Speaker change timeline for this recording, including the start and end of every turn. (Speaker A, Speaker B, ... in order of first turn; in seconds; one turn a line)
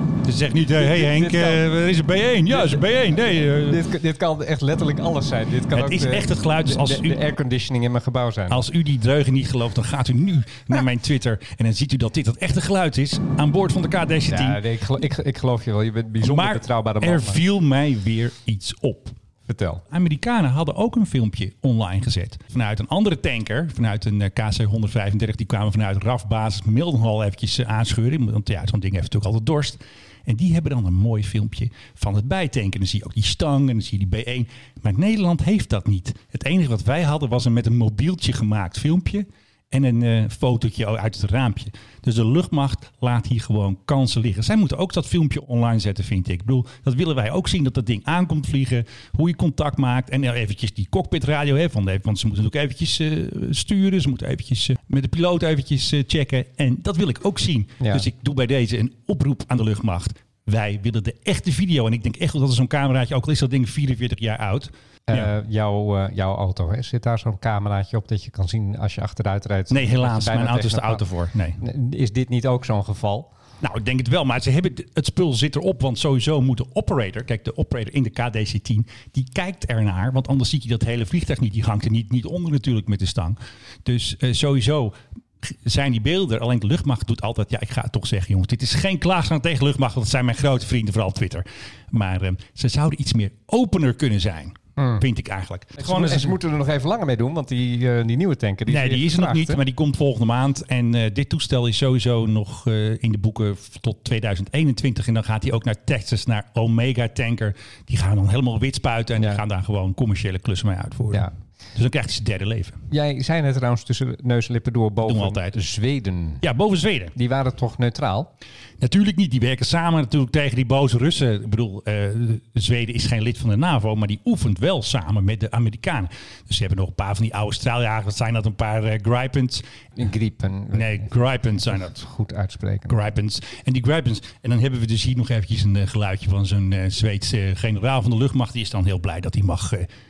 Speaker A: 0.2-3.8
Speaker B: 0.7-1.7
Speaker B: 2.5-8.7
Speaker A: 5.7-7.2
Speaker A: 8.5-14.6
Speaker B: 14.3-17.4
Speaker A: 16.2-19.1
Speaker B: 19.4-19.8
Speaker A: 19.9-65.3
Speaker B: 57.8-58.1
Speaker B: 65.1-71.1
Speaker A: 69.7-71.6
Speaker B: 71.6-73.3
Speaker A: 73.6-96.4
Speaker B: 94.8-95.0
Speaker B: 95.8-99.6
Speaker A: 98.7-112.8
Speaker B: 109.2-109.4
Speaker B: 112.9-116.4
Speaker A: 115.0-115.5
Speaker A: 116.4-117.1
Speaker B: 117.2-118.3
Speaker A: 118.8-129.6
Speaker B: 130.0-133.0
Speaker A: 130.7-132.0
Speaker A: 132.9-139.9